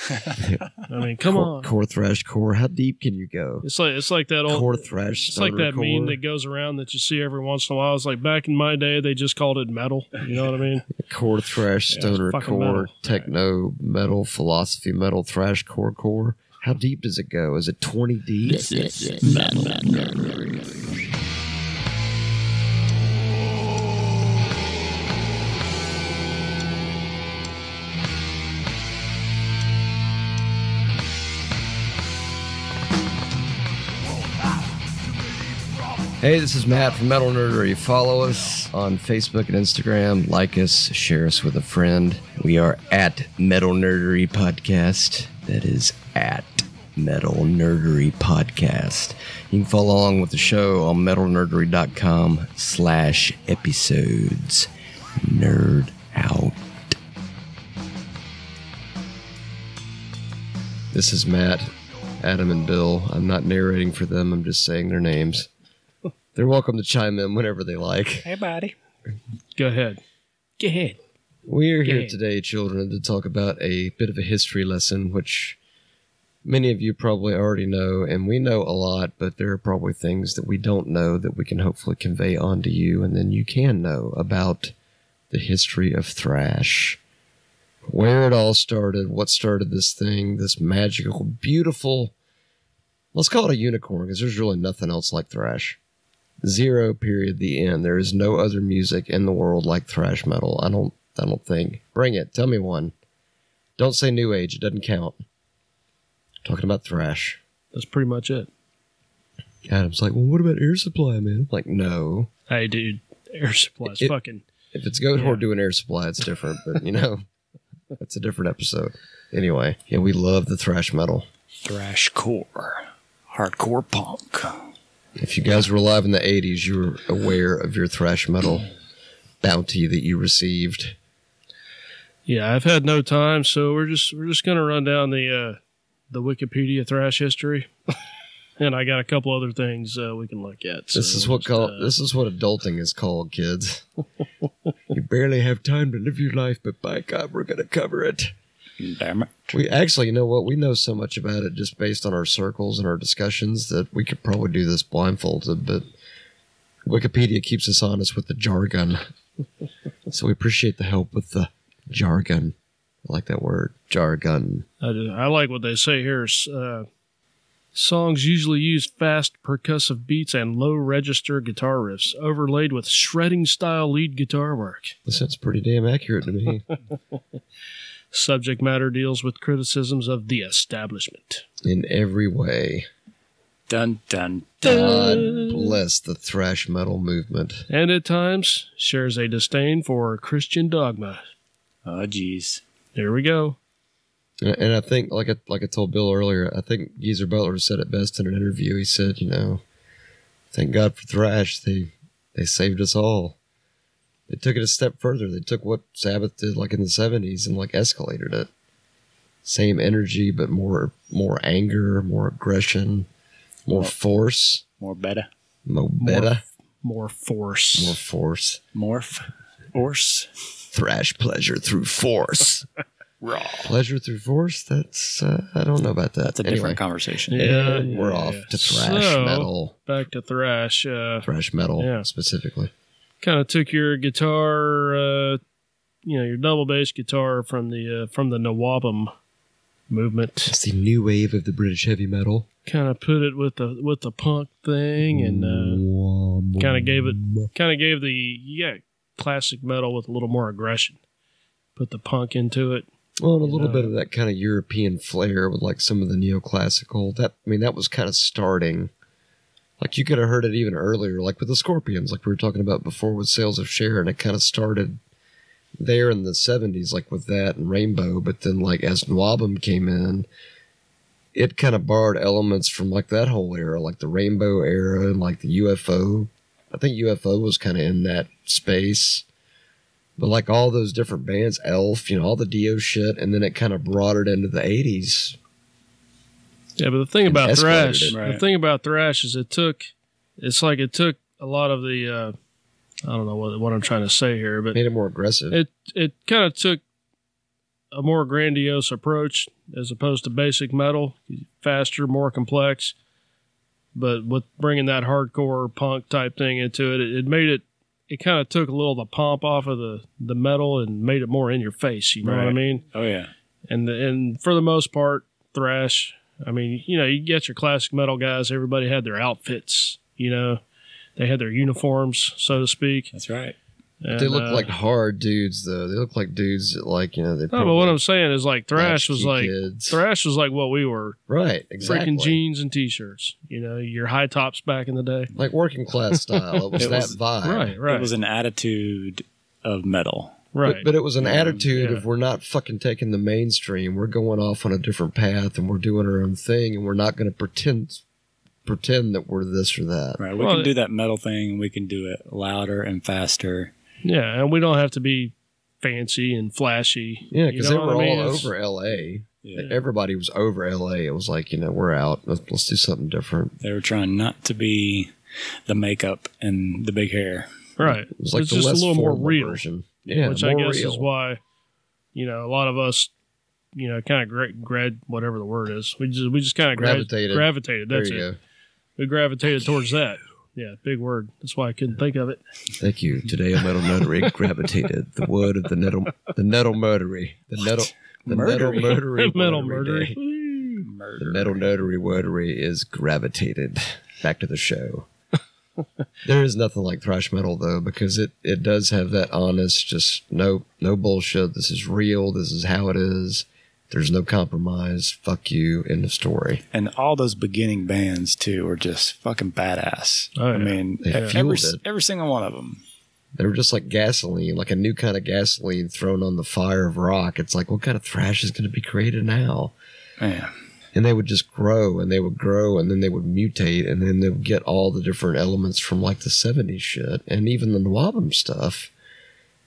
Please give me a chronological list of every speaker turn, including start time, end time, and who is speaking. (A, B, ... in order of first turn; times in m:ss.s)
0:00.9-0:01.7 A
0:01.2-0:03.7 B
0:03.6-0:04.8 A
0:04.5-0:06.2 B
0:05.3-0:10.9 A
0:10.9-0:19.3 B
0:11.9-0:12.2 C
0:12.2-0:12.9 A
0:19.2-0:20.0 C
0:36.2-0:54.7 B
0:55.2-0:57.0 B
1:00.9-1:01.7 B
1:02.2-1:05.5 B
1:06.4-1:08.3 B
1:08.2-1:08.7 C
1:09.6-1:10.0 A
1:10.6-1:11.0 A
1:11.5-1:15.6 B
1:11.9-1:12.1 A
1:16.4-1:24.7 B
1:25.3-1:27.0 B
1:27.8-1:32.1 B
1:33.1-1:35.8 B
1:36.4-1:42.9 B
1:43.8-1:45.2 B
1:46.4-1:47.4 B
1:47.7-1:48.5 A
1:49.6-1:52.3 B
1:52.5-1:54.4 A
1:53.8-1:54.1 B
1:54.7-1:57.2 B
1:55.2-1:55.4 A
1:58.0-2:01.3 B
2:01.6-2:04.7 C
2:05.2-2:08.7 B
2:09.4-2:11.0 B
2:12.3-2:15.6 A
2:16.1-2:17.7 A
2:18.6-2:21.9 A
2:20.9-2:23.9 B
2:24.9-2:28.3 B
2:28.8-2:29.5 C
2:29.5-2:35.8 B
2:36.9-2:39.0 B
2:40.1-2:44.7 B
2:44.8-2:46.9 A
2:47.7-2:55.0 A
2:55.1-2:56.6 B
2:58.1-3:01.4 A
3:01.6-3:02.9 B
3:03.7-3:05.2 C
3:04.6-3:07.7 B
3:04.6-3:05.8 A
3:07.7-3:11.2 A
3:11.8-3:12.6 C
3:13.0-3:13.6 A
3:14.4-3:19.6 B
3:20.5-3:23.4 B
3:24.3-3:28.5 B
3:29.4-3:33.1 B
3:33.7-3:34.6 B
3:34.8-3:35.3 C
3:35.7-3:36.4 B
3:36.0-3:38.0 A
3:37.8-3:38.6 B
3:38.7-3:40.3 C
3:40.7-3:42.7 B
3:43.2-3:43.6 C
3:43.6-3:46.8 B
3:46.2-3:47.6 C
3:47.3-3:52.1 A
3:47.3-3:49.8 B
3:51.2-3:52.7 B
3:53.2-3:55.4 A
3:56.0-3:59.1 A
3:59.9-4:00.6 A
4:00.5-4:02.5 B
4:02.7-4:05.8 A
4:05.1-4:07.5 B
4:06.6-4:11.0 A
4:11.8-4:12.9 A
4:13.2-4:18.9 B
4:13.4-4:13.9 A
4:19.8-4:25.0 B
4:25.8-4:30.3 B
4:31.3-4:39.2 B
4:40.2-4:45.4 B
4:46.8-4:52.4 A
4:47.3-4:48.2 B
4:48.1-4:48.4 C
4:53.1-4:54.8 A
4:54.7-4:55.6 B
4:55.5-4:56.8 A
4:57.9-5:03.0 A
5:04.0-5:12.8 A
5:12.2-5:13.3 C
5:13.7-5:20.6 A
5:21.2-5:23.1 A
5:23.1-5:23.6 C
5:24.0-5:24.7 A
5:24.2-5:28.0 B
5:27.5-5:31.2 A
5:28.8-5:30.0 B
5:31.3-5:32.4 B
5:31.8-5:35.3 A
5:35.4-5:37.7 B
5:36.8-5:37.2 C
5:37.4-5:38.1 A
5:37.8-5:40.5 C
5:40.5-5:40.9 A
5:40.6-5:48.0 B
5:41.2-5:41.6 C
5:41.7-5:42.0 A
5:48.6-5:50.2 B
5:50.2-5:53.7 C
5:50.4-5:50.7 A
5:54.0-5:58.5 A
5:57.3-6:03.6 B
5:59.4-5:59.7 C
6:03.6-6:05.1 C
6:05.7-6:07.5 C
6:07.8-6:09.6 A
6:07.8-6:11.1 B
6:10.2-6:11.4 A
6:12.1-6:13.1 A
6:13.8-6:18.3 A
6:16.8-6:18.4 B
6:19.0-6:22.4 A
6:22.8-6:30.2 B
6:27.7-6:29.0 C
6:29.0-6:30.9 A
6:30.8-6:31.6 C
6:31.2-6:35.1 B
6:36.2-6:46.6 B
6:46.7-6:52.8 C
6:50.4-6:51.3 A
6:51.0-6:51.8 B
6:53.4-6:59.7 B
7:00.2-7:00.5 C
7:00.9-7:08.9 B